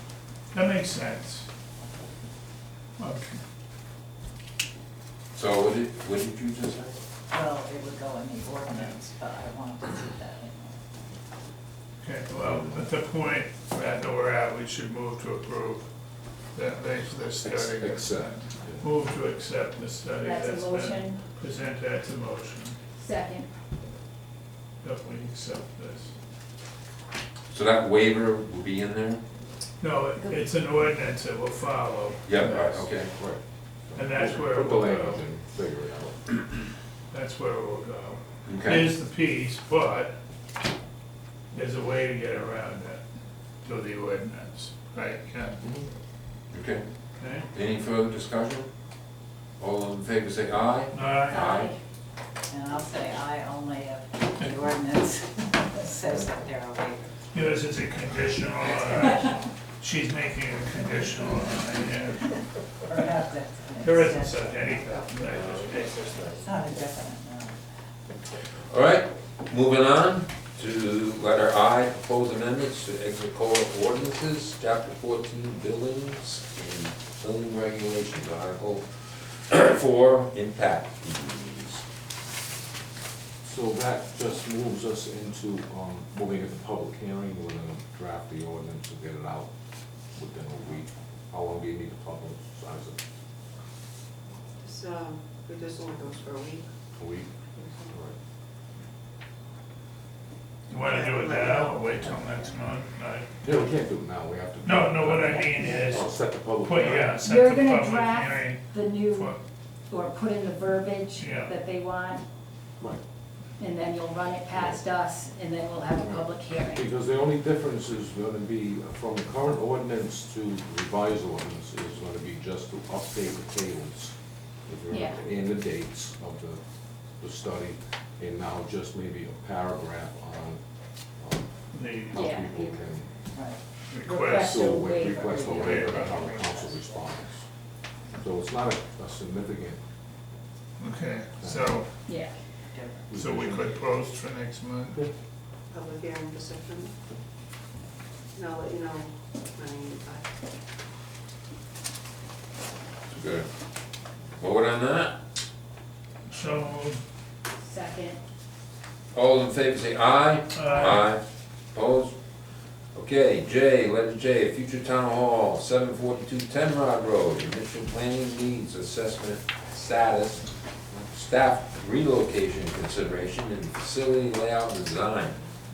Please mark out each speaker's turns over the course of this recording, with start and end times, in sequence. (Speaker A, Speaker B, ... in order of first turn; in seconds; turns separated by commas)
Speaker A: 0.5-1.5, Speaker A: 3.0-3.4, Speaker B: 5.3-6.9, Speaker C: 7.3-10.8, Speaker A: 8.7-9.0, Speaker A: 12.0-15.9, Speaker B: 12.4-12.7, Speaker A: 16.5-22.8, Speaker D: 17.4-18.9, Speaker E: 20.2-21.2, Speaker E: 23.0-23.5, Speaker A: 24.8-26.1, Speaker B: 27.5-29.2, Speaker A: 29.8-32.9, Speaker E: 30.2-30.4, Speaker B: 32.2-33.2, Speaker D: 33.2-36.2, Speaker A: 34.0-35.2, Speaker A: 37.1-40.1, Speaker B: 38.5-38.9, Speaker A: 41.5-43.0, Speaker A: 43.6-45.6, Speaker D: 45.6-45.9, Speaker B: 46.5-46.8, Speaker A: 47.2-47.5, Speaker B: 47.5-48.7, Speaker B: 49.6-51.7, Speaker A: 50.9-51.4, Speaker E: 51.3-51.8, Speaker C: 52.5-57.2, Speaker A: 57.3-62.3, Speaker C: 58.8-59.2, Speaker C: 62.9-65.3, Speaker A: 63.8-66.1, Speaker C: 66.3-67.6, Speaker B: 68.7-81.8, Speaker D: 83.4-89.5, Speaker D: 90.1-93.0, Speaker F: 94.6-96.7, Speaker D: 97.0-97.3, Speaker F: 97.5-97.9, Speaker D: 97.9-98.1, Speaker A: 100.7-103.7, Speaker F: 100.8-102.4, Speaker D: 103.4-107.2, Speaker A: 104.6-106.1, Speaker A: 106.6-109.4, Speaker E: 107.2-109.3, Speaker E: 109.9-112.2, Speaker A: 111.2-111.5, Speaker E: 113.6-116.8, Speaker D: 114.5-114.8, Speaker D: 116.0-126.6, Speaker E: 124.9-125.2, Speaker D: 127.2-130.6, Speaker D: 131.2-131.5, Speaker A: 131.7-132.3, Speaker D: 132.1-133.2, Speaker E: 132.1-132.5, Speaker C: 133.3-133.6, Speaker A: 133.9-134.6, Speaker E: 134.0-136.8, Speaker D: 134.4-137.5, Speaker A: 135.5-136.2, Speaker D: 138.1-139.8, Speaker A: 140.8-141.9, Speaker D: 141.4-141.8, Speaker E: 142.1-142.3, Speaker C: 142.7-143.1, Speaker D: 143.1-143.8, Speaker A: 143.1-145.0, Speaker F: 145.7-146.9, Speaker F: 148.3-150.3, Speaker B: 153.1-153.5, Speaker B: 154.4-155.2, Speaker A: 156.3-157.0, Speaker E: 157.6-158.2, Speaker B: 159.1-161.2, Speaker A: 160.5-161.1, Speaker B: 161.7-162.1, Speaker B: 162.9-175.4